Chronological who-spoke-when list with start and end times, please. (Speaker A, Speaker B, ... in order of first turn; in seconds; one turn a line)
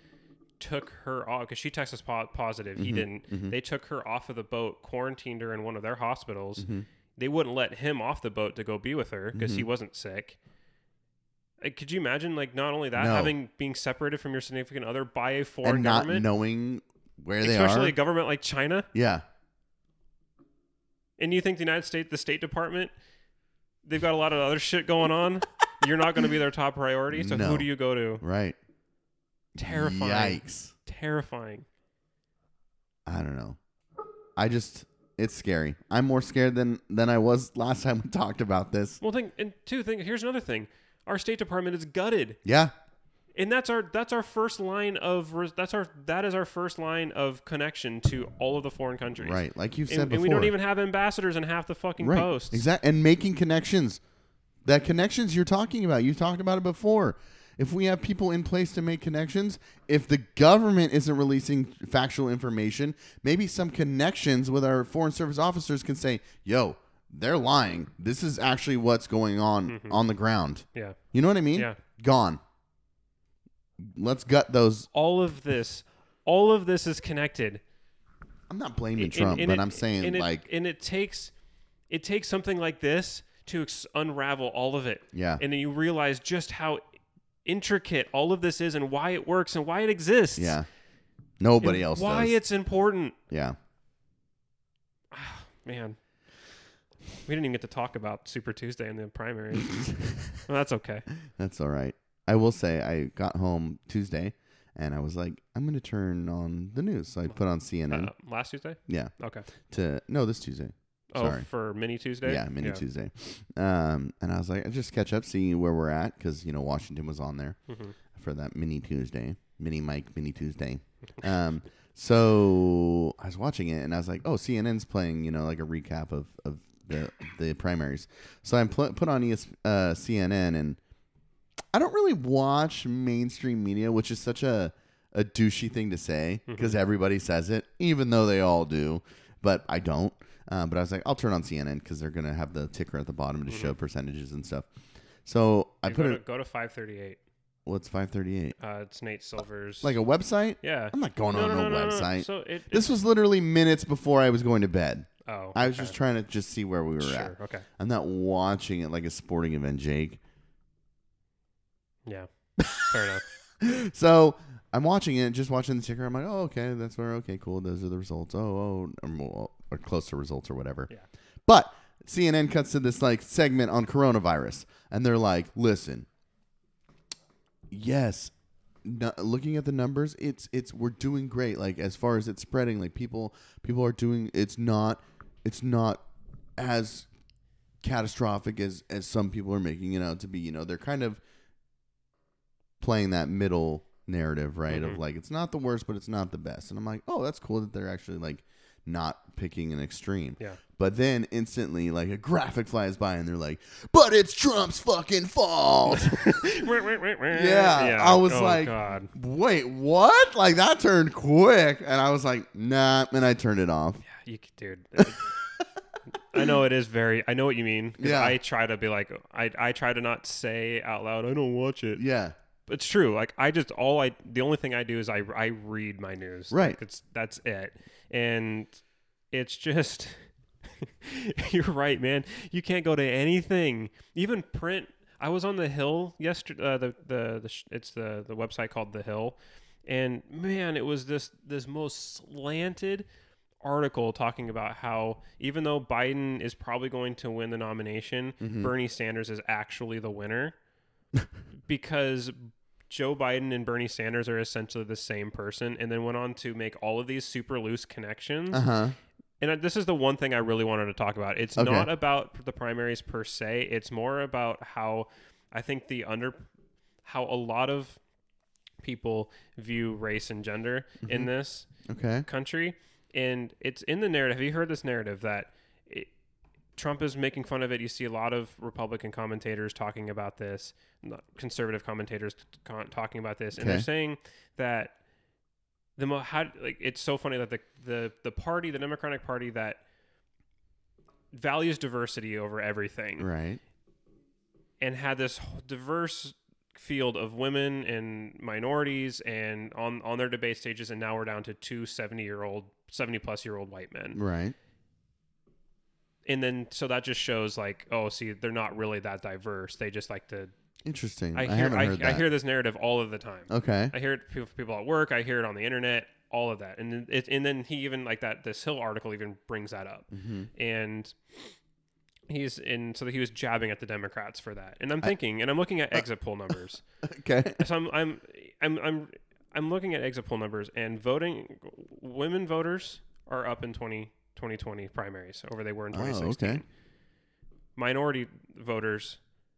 Speaker A: 0.6-10.4
Speaker B: 2.8-3.5
Speaker B: 6.6-6.8
Speaker B: 9.3-9.7
Speaker A: 11.6-16.2
Speaker B: 12.9-13.3
Speaker B: 15.6-17.9
Speaker A: 17.4-18.9
Speaker B: 18.9-19.2
Speaker A: 21.2-22.9
Speaker A: 23.8-28.2
Speaker B: 27.1-27.7
Speaker B: 28.2-28.6
Speaker B: 29.6-30.7
Speaker A: 29.6-31.7
Speaker B: 33.0-33.6
Speaker B: 34.4-39.0
Speaker A: 39.0-42.4
Speaker B: 42.4-42.7
Speaker A: 43.3-52.6
Speaker B: 49.2-50.5
Speaker B: 52.0-54.0
Speaker B: 54.6-72.4
Speaker A: 69.7-70.0
Speaker B: 73.8-74.9
Speaker A: 74.9-77.6
Speaker B: 78.5-80.4
Speaker A: 79.0-81.3
Speaker A: 81.9-86.8
Speaker B: 85.1-85.4
Speaker A: 87.4-90.6
Speaker B: 90.4-90.7
Speaker B: 91.4-92.3
Speaker A: 91.6-93.2
Speaker B: 93.3-93.6
Speaker A: 95.1-96.0
Speaker A: 97.2-99.8
Speaker B: 99.6-100.3
Speaker A: 100.4-101.1
Speaker B: 101.3-108.1
Speaker A: 107.9-109.5
Speaker B: 108.9-111.5
Speaker A: 111.1-112.8
Speaker B: 112.2-117.6
Speaker A: 117.7-117.9
Speaker B: 118.1-130.8
Speaker B: 131.7-144.7
Speaker A: 136.5-136.8
Speaker A: 143.5-143.7
Speaker B: 145.2-146.2
Speaker A: 145.8-147.2
Speaker B: 147.7-148.6
Speaker A: 148.6-149.9
Speaker B: 149.8-160.2
Speaker A: 150.6-152.9
Speaker A: 155.2-156.0
Speaker A: 157.0-157.7
Speaker A: 162.1-163.2
Speaker B: 162.6-163.0
Speaker B: 163.6-170.9
Speaker B: 171.4-176.1
Speaker B: 177.7-178.3
Speaker B: 178.8-186.0
Speaker B: 186.6-187.1
Speaker B: 187.8-191.2
Speaker B: 192.8-206.6
Speaker A: 194.7-195.0
Speaker A: 205.9-209.1
Speaker B: 207.3-214.0
Speaker A: 214.0-215.2
Speaker A: 216.3-222.0
Speaker B: 218.0-218.4
Speaker B: 221.9-222.3
Speaker A: 222.7-228.8
Speaker B: 226.5-226.8
Speaker A: 229.3-230.2
Speaker A: 230.8-243.1
Speaker A: 243.6-250.5
Speaker B: 248.4-248.7
Speaker A: 251.7-258.7
Speaker B: 258.5-258.9
Speaker A: 259.4-266.5
Speaker B: 261.6-261.9
Speaker A: 267.0-268.0
Speaker A: 268.8-271.7
Speaker B: 271.0-271.3
Speaker B: 271.8-272.2
Speaker A: 272.2-276.1
Speaker A: 276.8-284.9
Speaker B: 283.6-283.9
Speaker A: 286.0-289.8
Speaker A: 291.3-293.3
Speaker B: 293.2-293.6
Speaker A: 294.8-304.2
Speaker B: 304.1-304.6
Speaker A: 306.2-310.5
Speaker B: 310.8-312.2
Speaker A: 311.3-321.5
Speaker B: 313.5-313.9
Speaker B: 320.1-320.5
Speaker A: 322.3-326.8
Speaker B: 327.0-327.6
Speaker A: 327.6-336.6
Speaker B: 335.9-336.6
Speaker A: 337.8-339.2